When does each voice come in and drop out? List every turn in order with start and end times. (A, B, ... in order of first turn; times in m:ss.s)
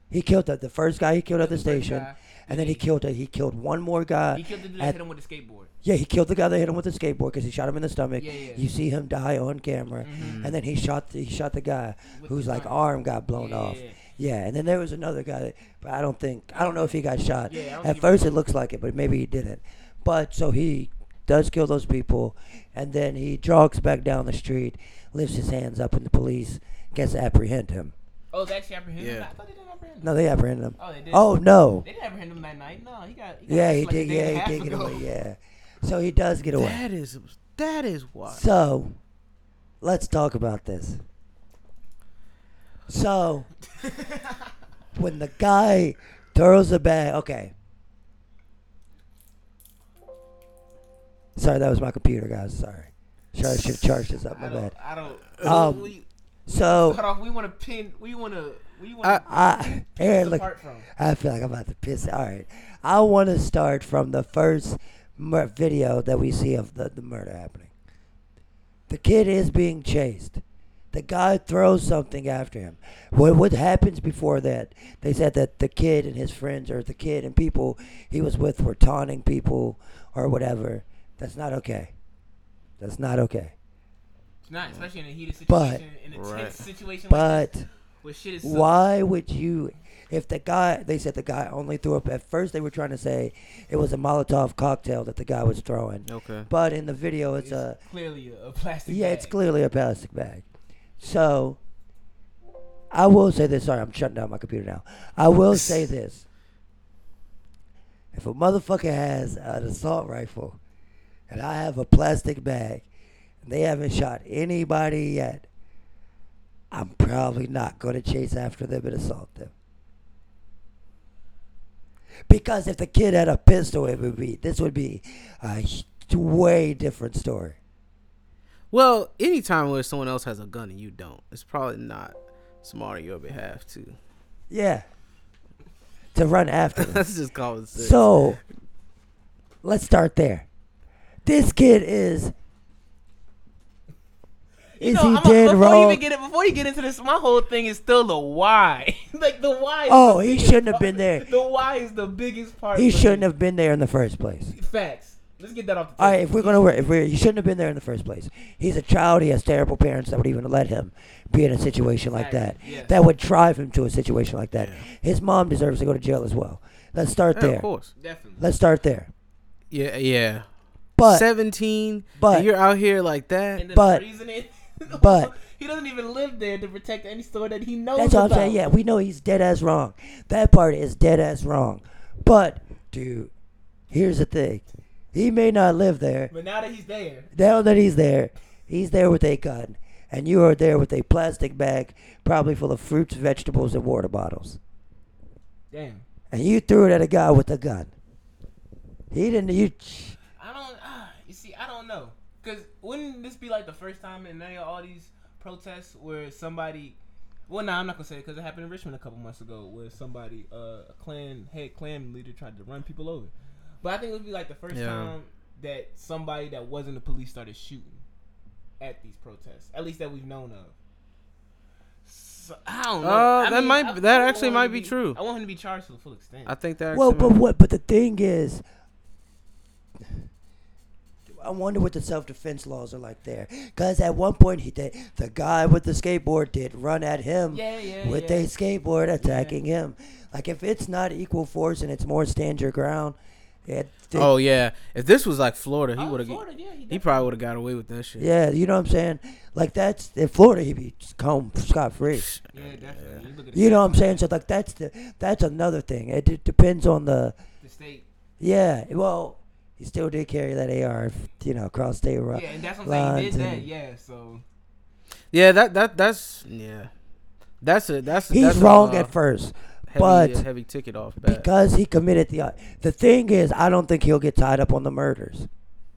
0:00.1-0:05.0 A
0:01.4-0:02.9 B
0:04.3-0:05.7 B
0:05.8-0:27.9 A
0:08.2-0:08.7 B
0:10.0-0:10.4 B
0:10.2-0:10.6 C
0:12.1-0:14.0 B
0:17.4-0:18.3 B
0:28.3-0:31.3 B
0:29.0-0:29.3 C
0:30.0-0:31.8 A
0:31.8-0:35.0 B
0:33.5-0:36.8 A
0:36.5-0:38.4 C
0:38.3-0:39.0 A
0:39.8-0:41.0 A
0:42.9-0:43.5 A
0:43.8-0:44.5 B
0:44.9-0:47.5 A
0:51.4-0:54.7 A
0:53.4-1:00.9 B
0:55.4-0:55.9 A
0:56.5-0:57.0 A
0:59.2-1:07.7 A
1:08.9-1:10.4 A
1:10.9-1:21.9 A
1:22.8-1:23.5 A
1:24.5-1:28.7 B
1:25.5-1:25.8 A
1:26.1-1:26.6 C
1:27.1-1:27.6 A
1:28.4-1:37.8 A
1:36.1-1:36.5 C
1:37.4-1:39.4 B
1:38.9-1:40.4 A
1:41.0-1:41.6 A
1:42.9-1:46.2 A
1:48.1-1:50.6 A
1:51.3-1:52.8 A
1:53.4-1:55.4 A
1:56.7-1:59.5 A
2:02.3-2:07.6 A
2:08.7-2:14.0 C
2:14.5-2:14.8 A
2:16.1-2:17.0 A
2:16.8-2:18.0 C
2:17.7-2:18.4 A
2:19.6-2:20.4 A
2:21.2-2:22.3 A
2:24.7-2:33.3 B
2:24.8-2:26.0 A
2:29.9-2:31.3 A
2:32.7-2:34.5 A
2:34.5-2:36.7 B
2:36.0-2:47.7 A
2:42.1-2:43.0 B
2:44.6-2:44.8 C
2:47.3-2:47.9 C
2:48.0-2:48.4 B
2:48.4-2:49.1 A
2:49.7-2:50.4 C
2:51.0-2:51.3 A
2:51.0-2:53.6 C
2:52.2-2:52.5 A
2:53.6-2:58.6 B
2:53.7-2:54.0 A
2:54.9-2:55.3 A
2:58.0-3:03.3 A
3:03.9-3:06.3 A
3:06.3-3:07.3 B
3:07.3-3:14.6 A
3:15.7-3:16.0 B
3:16.3-3:17.9 A
3:19.1-3:20.2 A
3:20.4-3:38.0 B
3:34.7-3:35.1 C
3:38.8-3:40.7 B
3:42.0-3:46.5 B
3:43.0-3:45.2 C
3:46.4-3:47.4 C
3:46.9-3:48.6 A
3:51.3-4:04.3 A
3:57.5-3:58.5 B
3:59.2-3:59.5 B
4:04.1-4:08.3 C
4:06.0-4:07.3 B
4:08.2-4:12.3 A
4:12.2-4:13.2 C
4:12.5-4:14.3 B
4:13.5-4:17.3 A
4:17.6-4:18.0 B
4:18.4-4:23.7 A
4:22.3-4:24.4 B
4:25.3-4:26.9 C
4:27.6-4:29.1 C
4:28.3-4:30.4 A
4:29.9-4:31.5 C
4:31.2-4:35.5 A